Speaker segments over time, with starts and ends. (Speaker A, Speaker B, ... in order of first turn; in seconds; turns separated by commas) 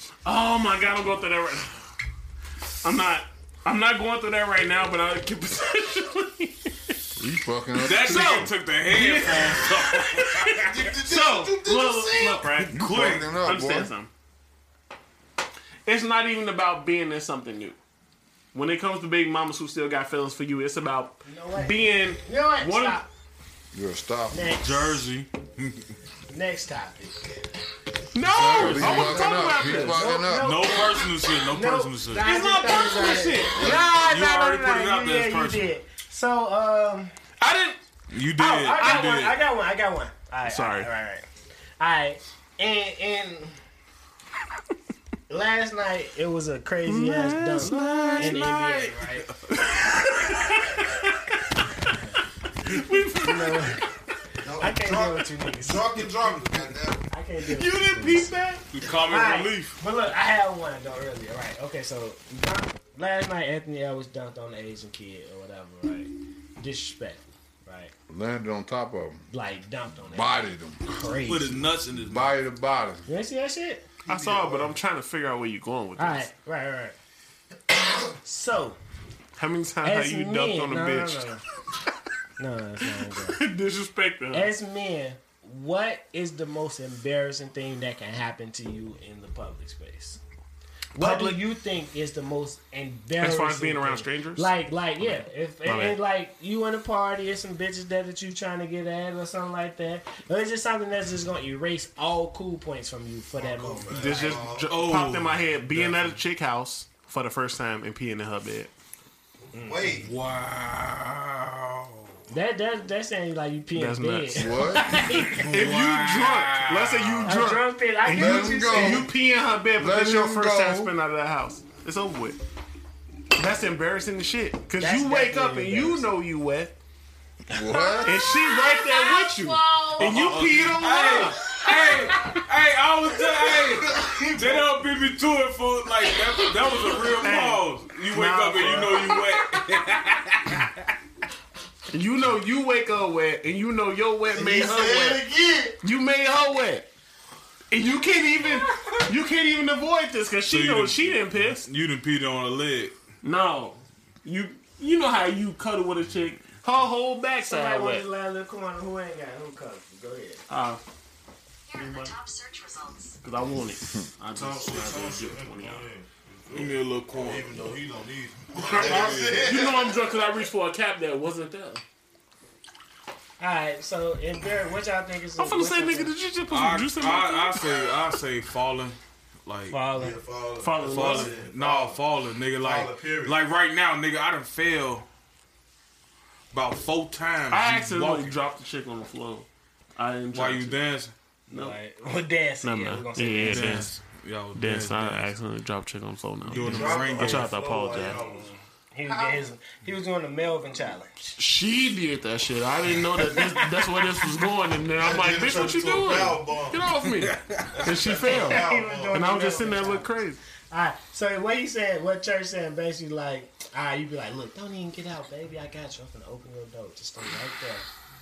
Speaker A: 0.2-1.8, Speaker A: 2.8-6.9, Speaker B: 7.2-8.5, Speaker C: 7.8-10.7, Speaker A: 7.8-14.1, Speaker D: 10.6-12.7, Speaker C: 12.7-13.3, Speaker B: 12.7-13.9, Speaker A: 15.8-17.8, Speaker A: 18.5-23.0, Speaker E: 21.2-23.1, Speaker B: 23.7-24.4, Speaker E: 24.3-25.1, Speaker C: 24.6-25.9, Speaker E: 26.3-27.3, Speaker A: 28.1-30.1, Speaker C: 28.2-29.4, Speaker B: 28.6-30.6, Speaker E: 28.8-37.1, Speaker C: 30.2-35.7, Speaker B: 33.5-33.8, Speaker A: 37.4-37.8, Speaker C: 38.1-39.4, Speaker E: 38.4-41.2, Speaker A: 40.5-40.9, Speaker E: 41.8-43.6, Speaker E: 45.3-49.2, Speaker A: 46.9-48.5, Speaker C: 47.5-49.5, Speaker A: 49.5-51.5, Speaker E: 51.8-52.1, Speaker A: 52.6-53.9, Speaker E: 53.2-53.9, Speaker D: 54.4-57.1, Speaker E: 54.6-56.1, Speaker E: 57.1-58.3, Speaker A: 57.5-58.6, Speaker C: 58.7-59.8, Speaker E: 59.0-67.9, Speaker B: 68.1-69.3, Speaker E: 69.3-71.7, Speaker B: 70.1-70.8, Speaker C: 71.1-72.3, Speaker B: 72.1-73.1, Speaker E: 73.1-73.8, Speaker D: 74.1-74.7, Speaker A: 74.1-76.3, Speaker E: 76.0-77.0, Speaker E: 78.2-78.8, Speaker A: 79.4-81.3, Speaker E: 79.8-81.4, Speaker E: 82.4-83.4, Speaker A: 83.1-84.5, Speaker E: 84.3-90.2, Speaker A: 90.9-91.4, Speaker E: 90.9-104.5, Speaker A: 93.2-96.0, Speaker D: 103.4-104.7, Speaker A: 103.9-108.7, Speaker C: 104.6-106.2, Speaker D: 109.5-110.1, Speaker E: 109.5-109.8, Speaker C: 110.0-112.1, Speaker E: 112.3-115.6, Speaker A: 113.8-114.6, Speaker B: 114.4-115.0, Speaker C: 115.3-117.5, Speaker A: 115.5-122.4, Speaker E: 117.2-119.1, Speaker B: 118.0-119.1, Speaker B: 119.8-120.9, Speaker A: 123.3-126.8, Speaker E: 124.8-126.1, Speaker B: 127.5-128.2, Speaker F: 127.9-130.2, Speaker A: 128.0-131.6, Speaker C: 130.0-140.9, Speaker D: 133.6-134.7, Speaker A: 137.2-139.2, Speaker A: 141.9-145.3, Speaker D: 144.3-145.8, Speaker A: 145.8-146.9, Speaker A: 147.7-151.7, Speaker C: 150.5-152.9, Speaker A: 153.2-158.1, Speaker E: 157.4-160.4, Speaker A: 160.5-160.8, Speaker F: 161.7-163.2, Speaker A: 161.8-162.1, Speaker A: 163.2-165.9, Speaker D: 164.3-170.0, Speaker C: 166.5-167.7, Speaker C: 168.6-169.6, Speaker A: 168.7-171.8, Speaker E: 173.4-176.1, Speaker A: 175.4-177.9, Speaker C: 176.5-179.8, Speaker E: 179.7-180.2, Speaker D: 179.9-182.0, Speaker A: 180.6-181.3, Speaker C: 180.8-185.1, Speaker D: 182.6-183.4, Speaker C: 186.5-188.3, Speaker A: 187.5-190.8, Speaker C: 190.3-191.1, Speaker E: 191.5-193.9, Speaker A: 191.5-191.8, Speaker A: 192.6-194.0, Speaker C: 193.4-195.3, Speaker A: 194.5-198.2, Speaker C: 196.4-197.5, Speaker D: 196.5-199.4, Speaker E: 198.0-201.2, Speaker A: 201.4-210.4, Speaker D: 205.0-206.9, Speaker C: 207.0-207.9, Speaker D: 207.7-209.3, Speaker E: 208.3-210.1, Speaker E: 210.7-217.8